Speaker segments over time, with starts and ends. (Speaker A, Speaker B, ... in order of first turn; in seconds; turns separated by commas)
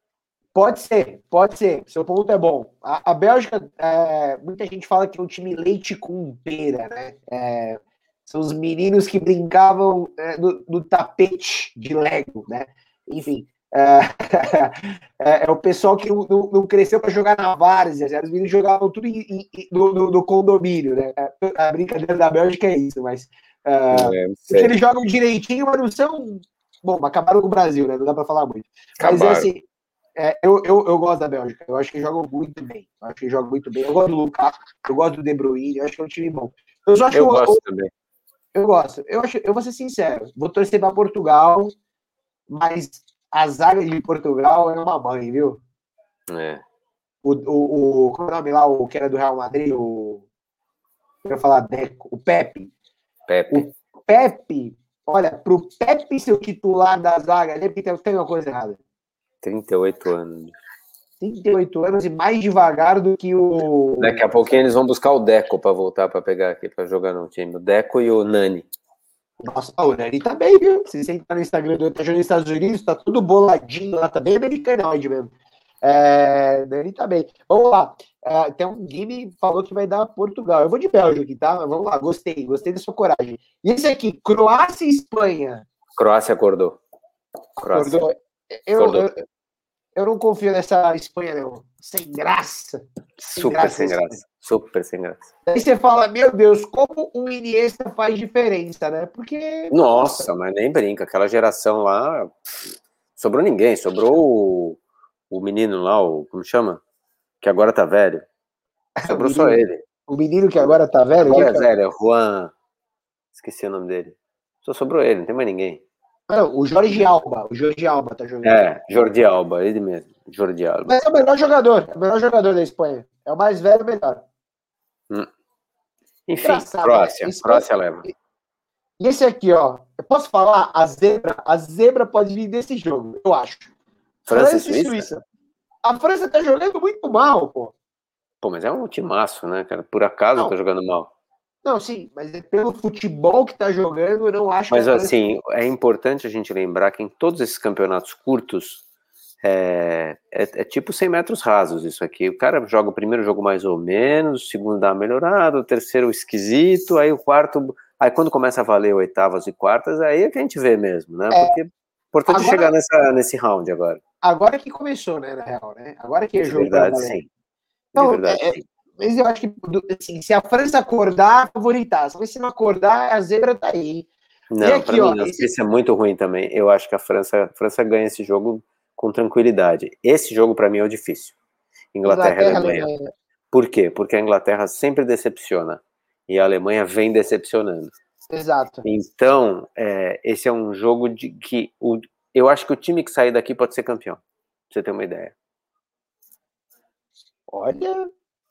Speaker A: 0.5-29.6, Speaker B: 23.9-24.8, Speaker B: 29.0-29.5, Speaker A: 30.2-37.6, Speaker B: 37.1-37.9, Speaker A: 38.5-41.7, Speaker A: 42.5-45.6, Speaker B: 46.3-46.6, Speaker A: 47.2-50.2, Speaker A: 51.2-52.7, Speaker B: 53.3-53.6, Speaker A: 53.5-58.8, Speaker B: 59.4-60.5, Speaker A: 61.2-64.5, Speaker B: 64.0-68.7, Speaker A: 69.4-85.7, Speaker B: 85.9-86.8, Speaker B: 87.6-88.0, Speaker A: 87.6-89.2, Speaker B: 88.8-89.1, Speaker A: 89.9-92.8, Speaker B: 93.2-95.3, Speaker A: 93.3-94.2, Speaker A: 95.5-100.3, Speaker B: 99.7-102.4, Speaker B: 103.2-104.8, Speaker B: 105.3-106.8, Speaker B: 107.4-108.3, Speaker A: 109.0-111.7, Speaker B: 109.1-109.8, Speaker B: 111.2-112.5, Speaker B: 113.3-115.8, Speaker A: 116.3-118.7, Speaker B: 118.4-121.0, Speaker A: 120.8-124.2, Speaker B: 126.3-128.0, Speaker A: 126.4-128.1, Speaker A: 129.0-133.7, Speaker B: 134.2-135.2, Speaker A: 134.3-135.1, Speaker A: 135.8-137.7, Speaker B: 138.4-141.1, Speaker A: 141.6-145.1, Speaker B: 144.7-148.8, Speaker B: 149.4-164.0, Speaker A: 162.3-162.7, Speaker A: 164.2-167.2, Speaker B: 166.4-167.3, Speaker B: 167.9-168.6, Speaker A: 167.9-174.1, Speaker B: 174.5-181.3, Speaker A: 174.6-175.5, Speaker B: 181.9-182.9, Speaker A: 182.0-183.1, Speaker B: 183.5-187.9, Speaker A: 188.3-188.8, Speaker B: 188.8-195.3, Speaker A: 197.5-198.1